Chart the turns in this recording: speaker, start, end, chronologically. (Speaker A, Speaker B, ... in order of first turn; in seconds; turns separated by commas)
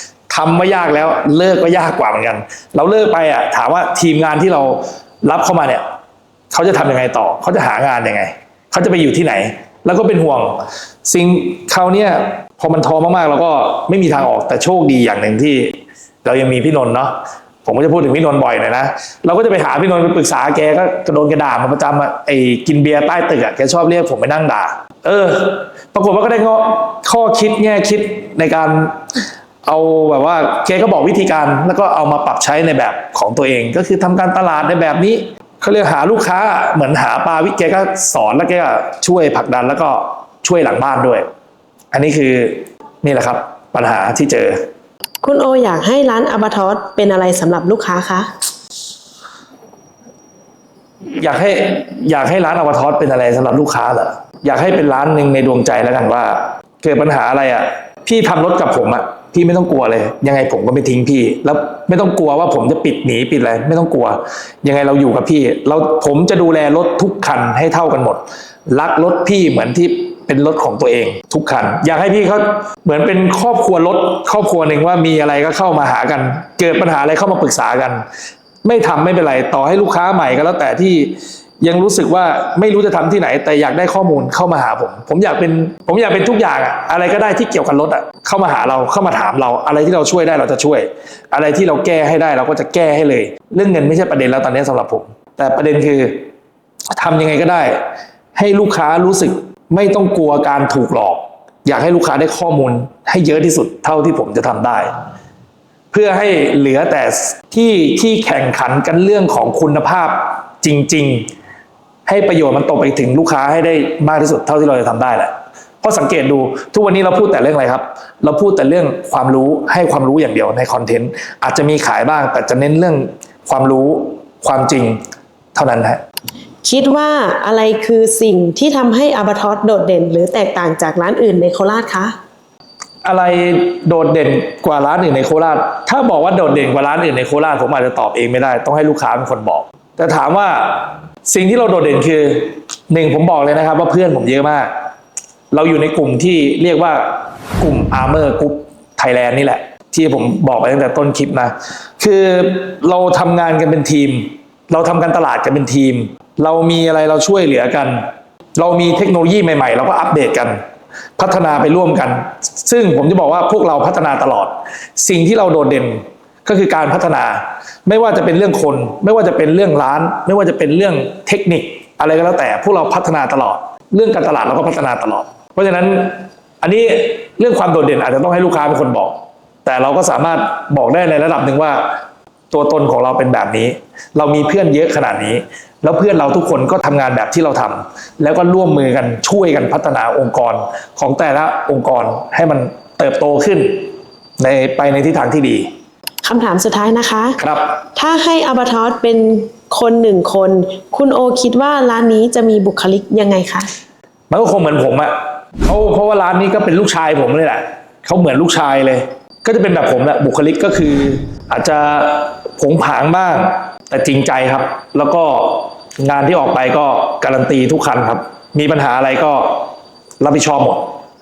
Speaker A: 0.3-5.8, Speaker A: 6.5-29.0, Speaker A: 29.6-41.2, Speaker A: 41.9-44.6, Speaker B: 45.2-48.3, Speaker A: 51.2-78.0, Speaker A: 78.6-96.3, Speaker A: 97.0-97.8, Speaker A: 98.3-104.9, Speaker A: 105.9-111.3, Speaker A: 112.1-125.0, Speaker A: 125.5-126.0, Speaker B: 126.6-132.1, Speaker A: 133.0-144.7, Speaker A: 145.5-158.0, Speaker A: 158.6-160.6, Speaker A: 161.2-181.9, Speaker A: 182.5-195.7, Speaker B: 196.2-197.4, Speaker A: 197.4-197.8, Speaker B: 197.9-203.7, Speaker A: 204.3-220.9